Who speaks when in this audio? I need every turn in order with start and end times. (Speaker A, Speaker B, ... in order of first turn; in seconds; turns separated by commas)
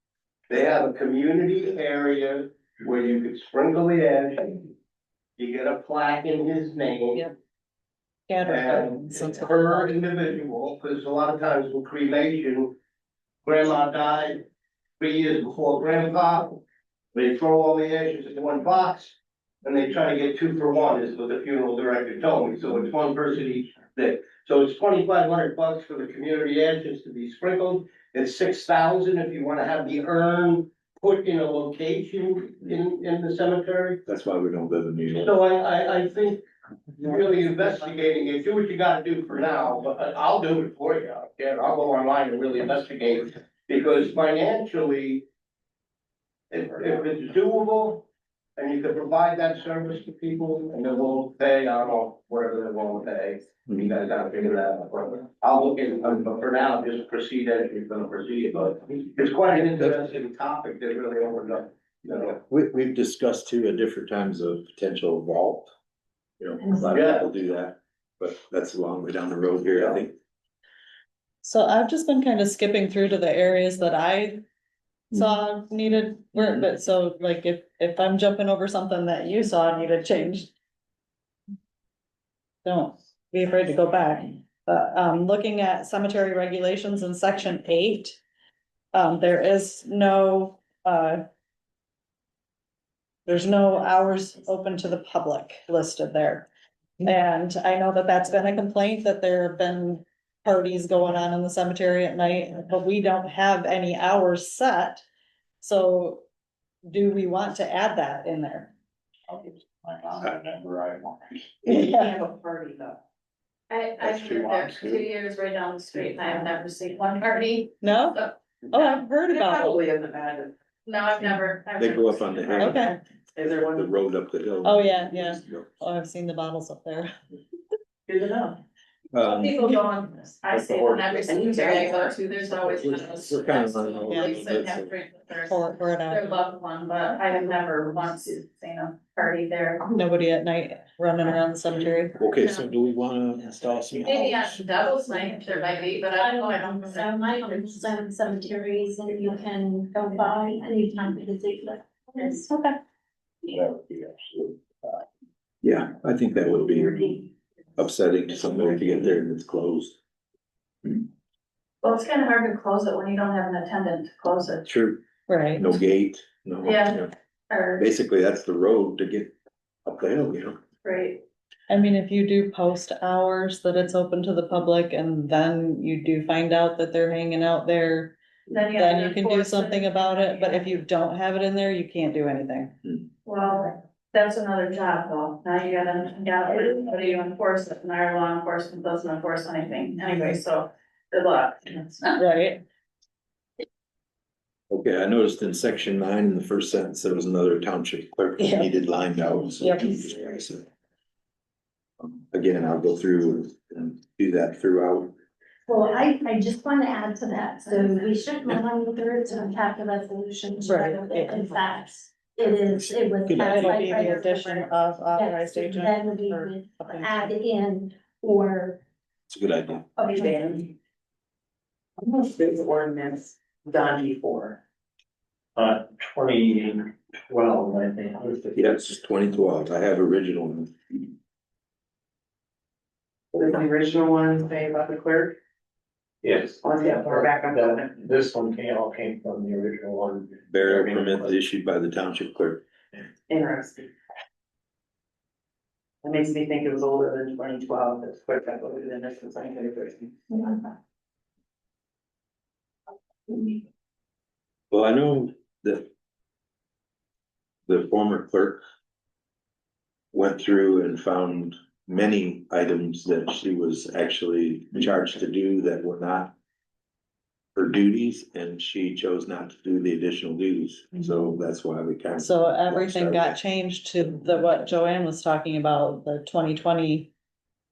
Speaker A: 0.5-4.7, Speaker A: 5.4-7.2, Speaker B: 8.3-9.9, Speaker A: 8.5-12.7, Speaker A: 13.4-14.4, Speaker A: 15.0-16.6, Speaker A: 17.1-34.0, Speaker C: 34.1-35.4, Speaker A: 35.1-36.4, Speaker A: 37.0-45.2, Speaker A: 46.5-48.0, Speaker A: 48.6-62.4, Speaker C: 62.3-65.7, Speaker C: 66.4-70.2, Speaker A: 66.8-67.2, Speaker B: 71.4-74.4, Speaker B: 75.1-80.5, Speaker B: 82.7-88.2, Speaker B: 88.9-91.2, Speaker B: 93.3-96.5, Speaker B: 97.0-105.0, Speaker B: 105.6-106.2, Speaker B: 106.9-108.7, Speaker D: 109.3-111.2, Speaker B: 111.7-112.2, Speaker E: 111.7-113.0, Speaker F: 113.7-118.3, Speaker B: 117.8-119.8, Speaker E: 119.3-120.5, Speaker F: 120.9-122.7, Speaker C: 121.8-122.9, Speaker B: 122.6-123.0, Speaker E: 123.3-123.9, Speaker C: 123.6-125.7, Speaker B: 124.6-127.1, Speaker E: 128.1-128.6, Speaker C: 129.1-129.6, Speaker F: 129.2-139.9, Speaker D: 130.5-131.1, Speaker E: 131.2-132.2, Speaker C: 132.7-135.0, Speaker B: 134.1-134.4, Speaker B: 135.5-136.4, Speaker B: 139.9-142.2, Speaker C: 142.2-144.6, Speaker F: 142.4-142.7, Speaker F: 144.0-147.9, Speaker G: 146.2-152.5, Speaker F: 152.4-152.8, Speaker C: 155.6-160.0, Speaker F: 161.8-164.7, Speaker C: 164.7-165.0, Speaker B: 165.3-165.7, Speaker C: 165.6-167.1, Speaker F: 166.6-167.8, Speaker C: 167.8-169.3, Speaker C: 169.9-170.6, Speaker F: 170.8-171.2, Speaker B: 171.7-178.2, Speaker F: 178.5-180.6, Speaker B: 178.8-182.8, Speaker F: 183.3-192.2, Speaker B: 192.2-192.6, Speaker C: 194.7-200.7, Speaker B: 198.4-198.7, Speaker B: 199.6-199.9, Speaker C: 202.0-205.1, Speaker G: 205.7-218.8, Speaker B: 210.6-211.5, Speaker C: 213.2-213.8, Speaker B: 213.3-217.3, Speaker C: 219.3-219.9, Speaker G: 220.0-220.6, Speaker E: 220.2-220.7, Speaker E: 222.0-224.6, Speaker D: 225.6-228.7, Speaker C: 228.6-230.7, Speaker E: 233.3-235.4, Speaker D: 236.2-241.4, Speaker E: 236.6-237.9, Speaker C: 240.5-242.7, Speaker E: 243.3-243.9, Speaker E: 246.0-250.6, Speaker C: 254.7-255.9, Speaker C: 257.7-258.6, Speaker C: 260.1-266.4, Speaker C: 267.6-273.4, Speaker B: 272.2-277.1